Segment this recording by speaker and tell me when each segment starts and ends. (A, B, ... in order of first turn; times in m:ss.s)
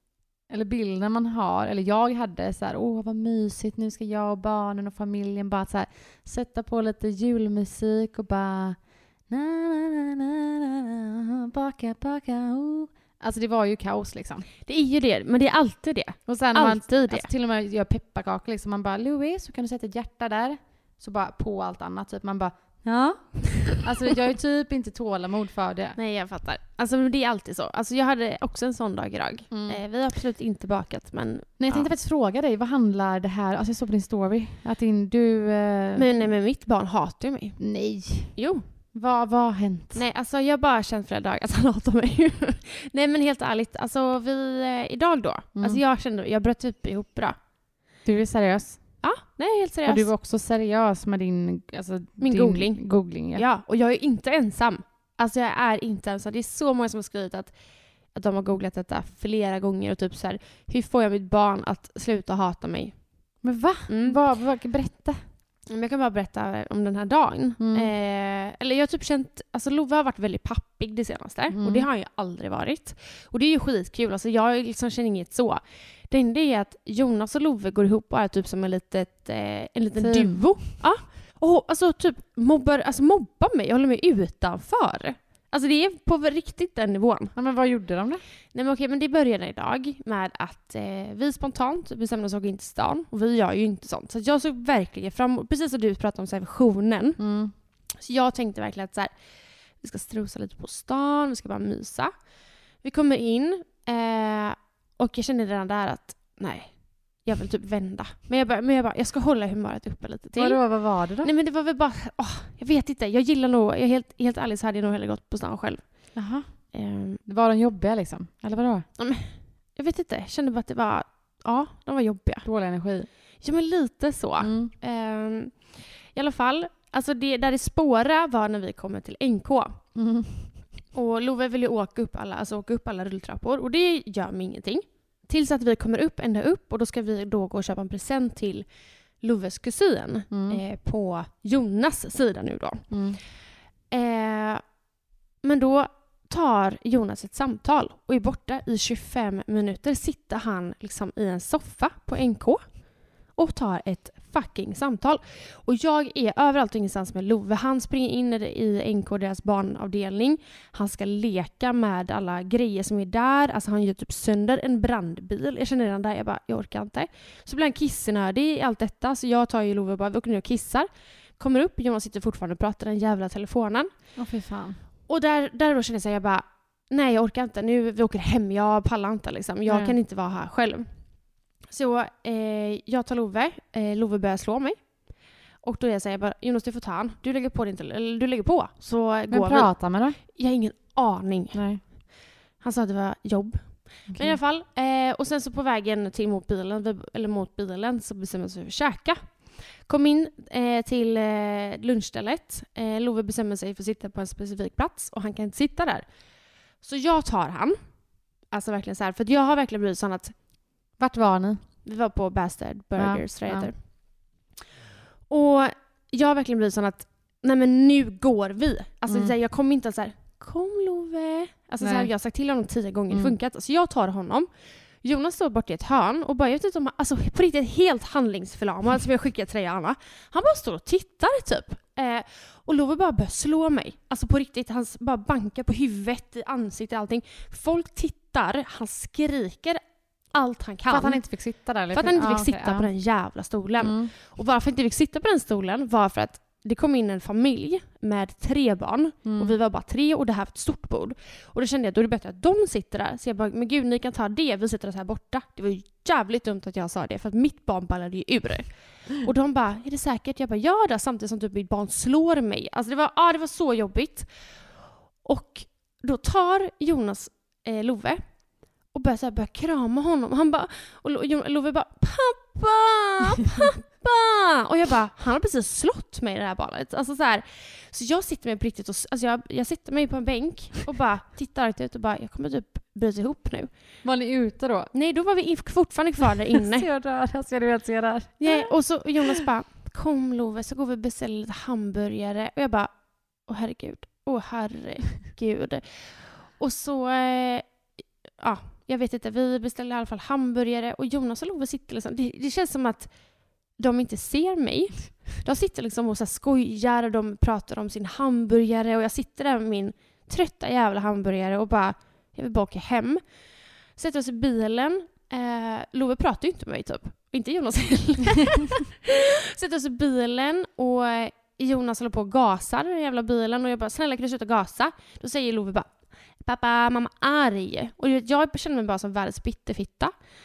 0:00.5-0:14.5 A
0:14.7-0:17.3 B
0:16.3-0:26.0 A
0:26.0-0:31.9 B
0:29.5-0:29.8 A
0:31.6-0:36.1 A
0:36.0-0:37.6 B
0:37.6-0:38.4 A
0:38.4-0:38.6 B
0:38.9-0:40.0 A
0:39.9-0:47.4 B
0:45.6-0:45.8 A
0:48.0-0:48.8 A
0:49.0-0:50.1 B
0:49.9-0:53.4 A
0:52.2-0:57.5 B
0:58.1-1:03.0 B
1:03.4-1:05.2 A
1:03.9-1:04.2 B
1:05.7-1:27.4 B
1:07.6-1:07.9 A
1:11.5-1:11.9 A
1:20.0-1:20.5 A
1:27.4-1:28.2 A
1:28.5-1:37.2 B
1:37.2-1:37.5 A
1:38.0-1:39.1 B
1:39.8-1:42.1 B
1:42.8-1:56.2 B
1:50.4-1:51.3 A
1:56.2-1:56.5 A
1:56.7-1:57.2 B
1:57.3-1:58.9 A
1:59.0-2:02.5 B
2:02.4-2:03.1 A
2:03.4-2:09.8 B
2:04.4-2:04.7 A
2:10.0-2:10.5 A
2:10.9-2:18.7 B
2:19.2-2:22.9 B
2:20.3-2:20.6 A
2:22.9-2:23.2 A
2:23.9-2:24.6 B
2:25.4-2:32.6 B
2:33.3-2:50.9 B
2:51.4-2:53.9 B
2:54.2-2:54.8 A
2:55.1-3:00.9 B
2:59.7-3:00.0 A
3:01.7-3:04.9 B
3:05.6-3:11.6 B
3:09.3-3:10.2 A
3:11.5-3:11.8 A
3:12.6-3:26.0 B
3:14.1-3:14.4 A
3:26.8-3:27.8 B
3:28.5-3:30.4 B
3:31.0-3:31.6 A
3:31.8-3:33.8 B
3:33.0-3:33.7 A
3:35.3-3:44.5 B
3:39.1-3:39.3 A
3:41.8-3:42.1 A
3:43.1-3:43.4 A
3:45.0-4:01.2 B
4:00.9-4:02.9 A
4:01.9-4:24.3 B
4:03.8-4:04.1 A
4:09.2-4:09.5 A
4:25.2-4:28.3 B
4:28.9-4:43.7 B
4:44.0-4:44.9 A
4:44.9-4:46.9 B
4:46.6-4:48.7 A
4:48.4-4:57.7 B
4:58.4-5:03.1 B
5:03.8-5:13.2 B
5:14.0-5:30.1 B